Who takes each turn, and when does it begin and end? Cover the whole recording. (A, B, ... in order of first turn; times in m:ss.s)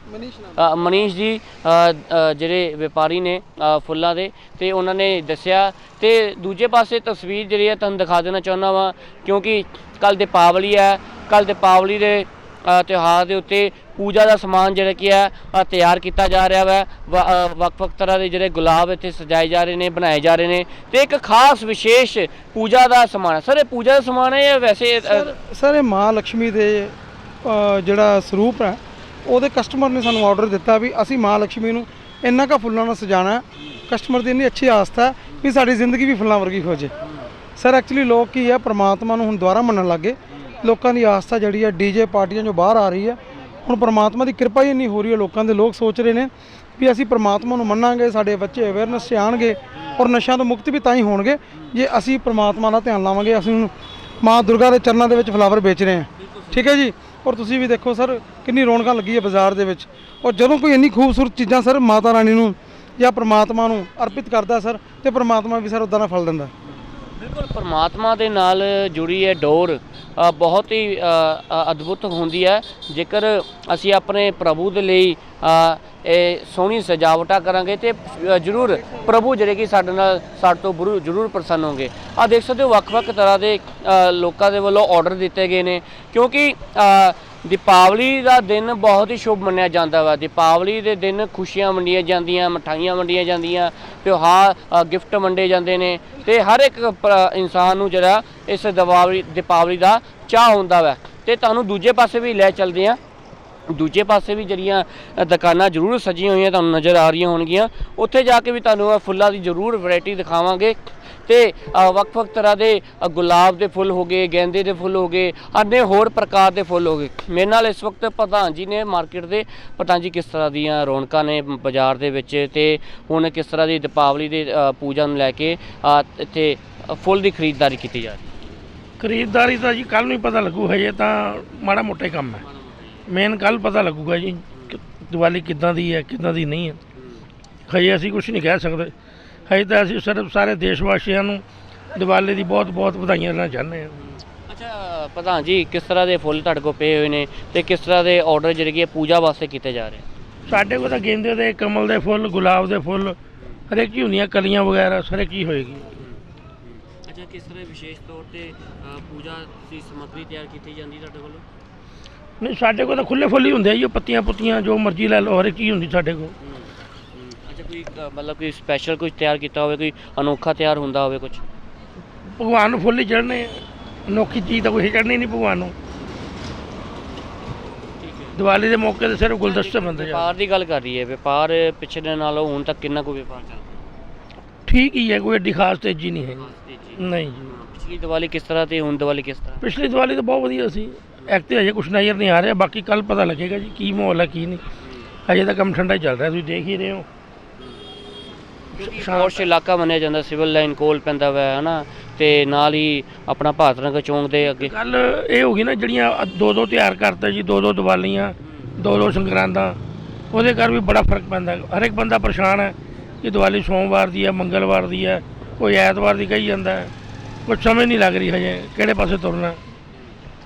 0:00.4-0:25.4 A
0:25.0-0:36.9 B
0:37.0-0:37.3 A
0:37.6-1:06.5 B
0:56.2-0:56.7 A
1:06.7-1:43.0 A
1:43.7-2:08.3 A
2:09.0-2:12.4 C
2:12.4-2:13.1 A
2:13.1-2:16.8 C
2:17.0-2:17.3 A
2:17.7-2:18.9 C
2:19.5-2:21.4 C
2:22.0-2:24.0 C
2:24.0-2:30.1 A
2:30.5-2:33.2 C
2:33.7-2:35.9 C
2:36.0-2:41.4 A
2:42.4-2:46.3 C
2:46.4-2:51.4 A
2:52.4-2:55.8 C
2:58.0-2:58.4 A
2:58.4-3:00.3 C
2:59.4-3:03.8 A
3:04.7-3:07.5 C
3:06.3-3:09.6 A
3:09.6-3:14.6 C
3:14.8-3:15.1 A
3:15.3-3:17.1 C
3:17.6-3:17.8 A
3:18.7-3:24.7 A
3:18.8-3:19.5 C
3:24.5-3:29.8 C
3:30.3-3:36.9 C
3:37.5-3:39.6 C